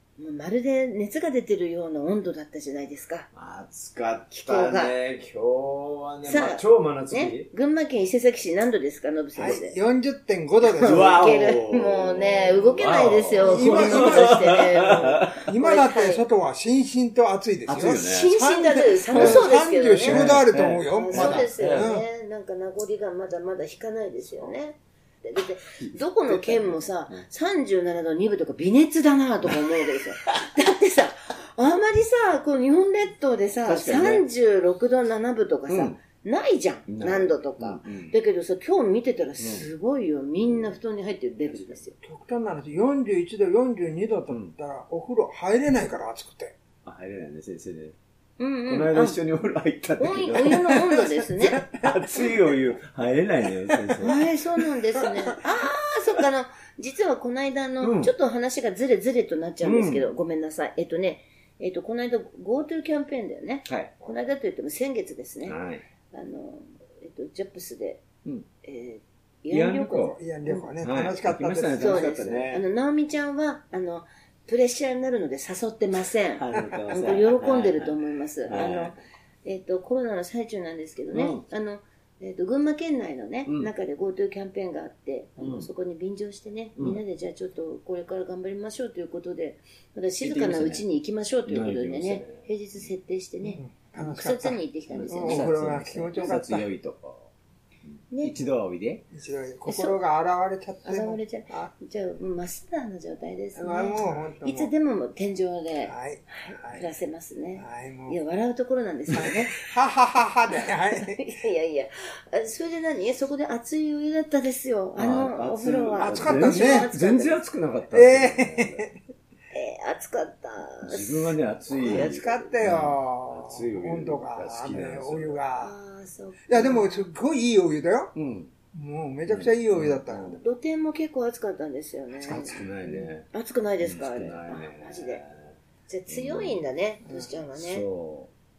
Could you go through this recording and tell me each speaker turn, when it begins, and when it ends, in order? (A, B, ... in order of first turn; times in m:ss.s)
0:00.2-0:03.3 A
0:03.3-0:07.5 B
0:04.3-0:04.9 A
0:06.2-0:09.8 A
0:09.4-0:11.1 C
0:10.8-0:16.2 A
0:10.8-0:15.5 B
0:13.4-0:14.6 C
0:15.4-0:22.0 C
0:17.6-0:18.3 B
0:17.8-0:42.0 A
0:19.1-0:19.5 B
0:20.0-0:21.9 B
0:25.8-0:27.2 B
0:30.1-0:30.4 B
0:33.6-0:34.3 B
0:35.7-0:36.0 B
0:36.9-0:38.1 B
0:39.4-0:39.7 B
0:41.5-0:41.8 B
0:42.0-0:46.5 C
0:44.3-0:44.6 B
0:46.8-0:48.0 B
0:48.4-0:49.2 A
0:48.6-0:54.2 B
0:50.0-0:51.7 A
0:54.0-1:05.6 A
0:57.8-0:58.1 B
0:59.6-1:00.1 B
1:03.6-1:03.9 B
1:05.4-1:05.8 B
1:06.1-1:08.0 A
1:08.6-1:10.6 A
1:09.5-1:10.2 B
1:10.1-1:12.0 C
1:10.7-1:12.6 B
1:11.8-1:36.1 A
1:16.3-1:17.9 B
1:16.5-1:16.8 C
1:18.4-1:19.0 B
1:21.1-1:21.4 B
1:23.4-1:23.7 B
1:25.4-1:25.7 B
1:30.2-1:30.8 B
1:31.4-1:32.8 B
1:33.5-1:36.7 C
1:34.9-1:37.3 B
1:37.8-1:39.0 B
1:39.1-1:41.7 C
1:39.7-1:40.0 A
1:40.8-1:49.6 A
1:43.6-1:44.7 C
1:45.8-1:46.9 C
1:47.6-1:48.2 C
1:49.1-1:51.2 C
1:51.0-1:57.4 A
1:55.0-1:58.9 B
1:56.0-1:56.9 C
1:57.9-1:58.9 C
1:59.5-2:02.5 A
2:00.8-2:05.4 B
2:01.8-2:05.7 C
2:05.6-2:07.1 A
2:06.5-2:08.1 C
2:08.1-2:08.5 B
2:08.7-2:10.4 C
2:09.3-2:10.4 B
2:10.4-2:15.2 A
2:12.2-2:12.7 C
2:12.2-2:13.3 B
2:13.8-2:16.6 B
2:15.9-2:17.8 A
2:17.5-2:18.3 B